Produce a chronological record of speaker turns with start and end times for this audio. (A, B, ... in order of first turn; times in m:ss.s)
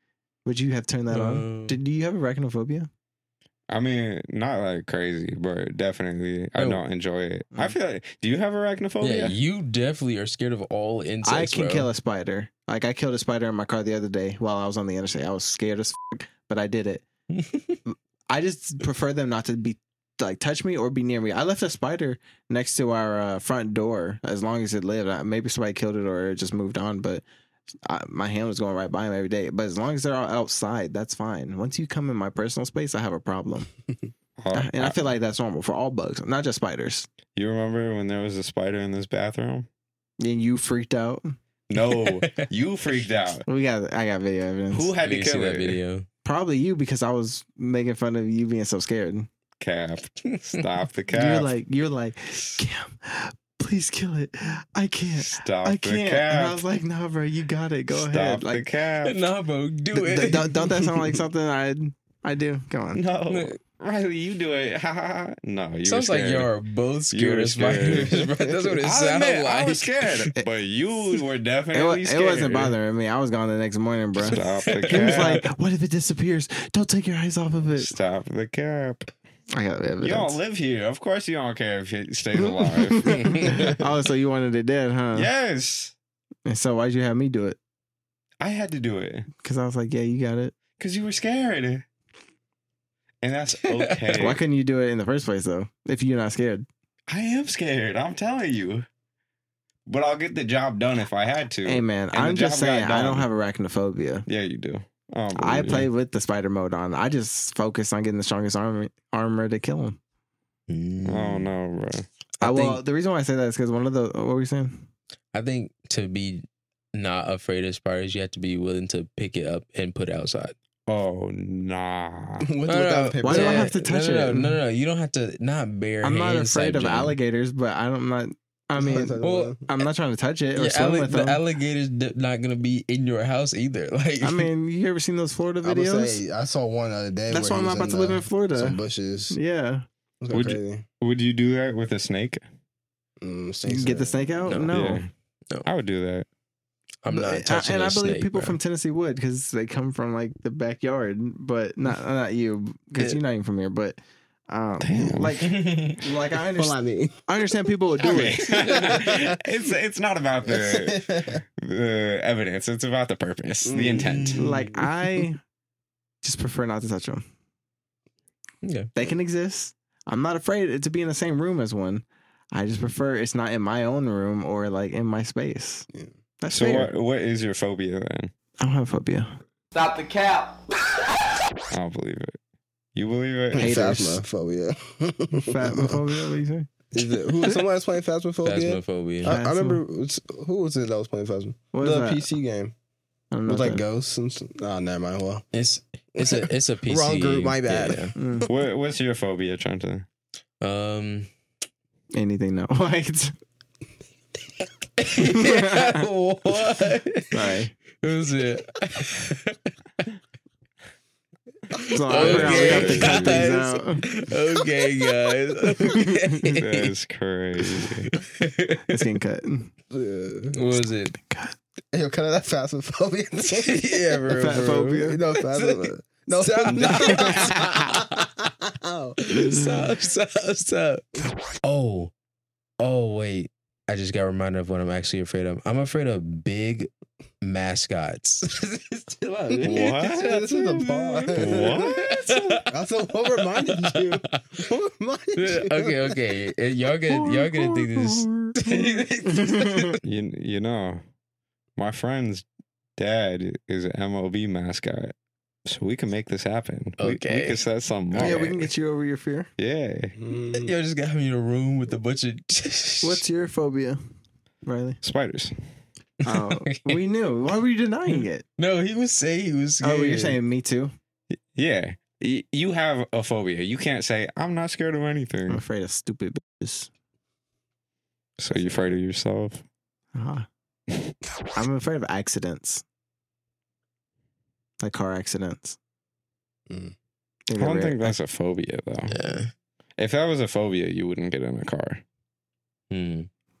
0:00.4-0:02.9 A
0:01.1-0:01.8 B
0:03.7-0:09.4 C
0:06.6-0:06.8 B
0:09.0-0:11.9 B
0:11.2-0:17.0 A
0:17.3-0:17.8 B
0:17.8-0:27.2 A
0:27.8-0:33.7 A
0:34.4-0:35.0 C
0:34.5-0:37.1 A
0:37.3-0:39.7 C
0:40.2-0:41.3 A
0:41.7-0:43.4 C
0:41.8-0:42.4 B
0:43.5-0:44.9 A
0:44.7-0:45.8 C
0:45.0-0:46.1 B
0:46.2-0:49.3 A
0:49.6-0:51.5 C
0:50.2-0:50.6 B
0:51.1-0:58.6 A
0:52.3-0:52.6 C
0:55.1-0:56.6 C
0:57.9-0:59.2 C
0:59.0-1:01.2 B
0:59.9-1:03.0 A
1:02.9-1:06.5 C
1:03.3-1:03.6 B
1:05.8-1:10.3 B
1:07.1-1:08.3 C
1:08.8-1:12.8 C
1:11.7-1:17.9 A
1:14.2-1:15.5 C
1:14.2-1:15.4 B
1:17.8-1:19.1 C
1:19.5-1:20.4 A
1:20.0-1:23.8 C
1:22.4-1:25.3 A
1:23.2-1:23.7 B
1:25.1-1:25.9 C
1:26.4-1:27.6 A
1:28.4-1:29.3 C
1:29.4-1:30.5 A
1:30.8-1:31.8 C
1:33.2-1:34.4 C
1:33.6-1:34.2 B
1:34.1-1:36.6 A
1:37.1-1:38.8 C
1:39.8-1:43.3 C
1:41.6-1:44.2 A
1:44.3-1:45.9 C
1:45.4-1:50.0 A
1:50.7-1:51.5 B
1:51.0-1:52.1 C
1:52.4-1:52.8 B
1:52.4-1:54.8 A
1:55.3-2:00.5 B
2:00.9-2:02.5 C
2:02.4-2:03.7 D
2:02.7-2:07.2 B
2:03.2-2:04.6 A
2:06.0-2:11.4 A
2:08.8-2:09.6 D
2:09.2-2:09.8 B
2:10.5-2:14.5 B
2:14.2-2:16.2 A
2:15.6-2:19.4 D
2:17.3-2:18.8 A
2:19.3-2:19.8 A
2:20.2-2:20.8 D
2:20.3-2:22.4 C
2:23.2-2:24.4 D
2:23.6-2:25.0 A
2:24.5-2:24.8 B
2:24.7-2:25.1 C
2:25.6-2:26.3 C
2:27.0-2:28.6 B
2:27.1-2:39.1 A
2:34.8-2:35.6 C
2:35.4-2:36.0 B
2:36.5-2:37.1 D
2:38.0-2:41.1 C
2:38.9-2:39.2 D
2:40.4-2:41.4 D
2:41.6-2:44.6 C
2:43.6-2:44.9 D
2:43.9-2:44.4 B
2:44.4-2:45.4 A
2:46.2-2:47.2 A
2:48.6-2:48.9 B
2:48.9-2:55.9 A
2:56.4-2:56.9 A
2:56.5-2:58.3 C
2:58.6-2:59.3 A
2:59.8-3:00.5 B
3:01.7-3:02.4 C
3:02.9-3:03.8 C
3:03.5-3:06.0 D
3:03.5-3:04.2 A
3:05.3-3:06.7 A
3:06.9-3:12.7 D
3:08.4-3:09.3 B
3:09.2-3:09.8 A
3:11.7-3:12.2 A
3:13.3-3:13.8 A
3:13.4-3:15.4 D
3:15.5-3:18.1 B
3:16.1-3:18.1 D
3:18.2-3:18.5 A
3:18.4-3:20.0 C
3:20.6-3:21.3 B
3:22.1-3:23.3 A
3:25.0-3:30.1 B
3:25.2-3:26.0 A
3:27.3-3:27.7 A
3:31.7-3:36.9 B
3:31.8-3:34.0 A
3:32.1-3:33.4 C
3:35.8-3:36.6 A
3:36.5-3:38.1 C
3:37.8-3:39.0 B
3:38.9-3:39.7 A
3:39.9-3:40.6 D
3:40.5-3:41.2 B
3:40.7-3:41.5 A
3:41.9-3:44.0 D
3:43.5-3:48.3 B
3:44.2-3:45.2 A
3:44.8-3:49.2 D
3:46.8-3:47.7 A
3:49.2-3:52.1 B
3:49.3-3:49.9 A
3:52.8-3:56.9 B
3:57.4-4:02.7 B
3:59.6-4:00.8 C
3:59.6-4:01.8 D
4:01.4-4:02.1 C
4:02.7-4:06.2 D
4:03.5-4:04.4 B
4:05.4-4:10.0 B
4:07.1-4:10.0 A
4:10.0-4:11.0 C
4:11.8-4:12.4 C
4:13.0-4:15.1 C
4:15.6-4:18.6 C
4:17.0-4:17.6 B
4:18.1-4:18.7 B
4:18.2-4:19.5 A
4:19.6-4:20.2 C
4:20.2-4:20.7 D
4:20.5-4:23.2 B
4:23.0-4:24.0 A
4:24.6-4:25.0 A
4:25.0-4:25.6 C
4:26.2-4:28.4 A
4:26.3-4:27.0 B
4:28.1-4:30.4 B
4:29.8-4:30.9 A
4:31.5-4:35.6 C
4:35.5-4:36.9 A
4:38.4-4:39.6 C
4:40.1-4:40.4 A
4:41.6-4:42.8 A
4:44.8-4:45.8 A
4:46.7-4:46.9 D
4:47.5-4:48.2 A
4:47.5-4:49.1 C
4:49.1-4:49.5 B
4:50.0-4:52.0 C
4:52.9-4:53.3 B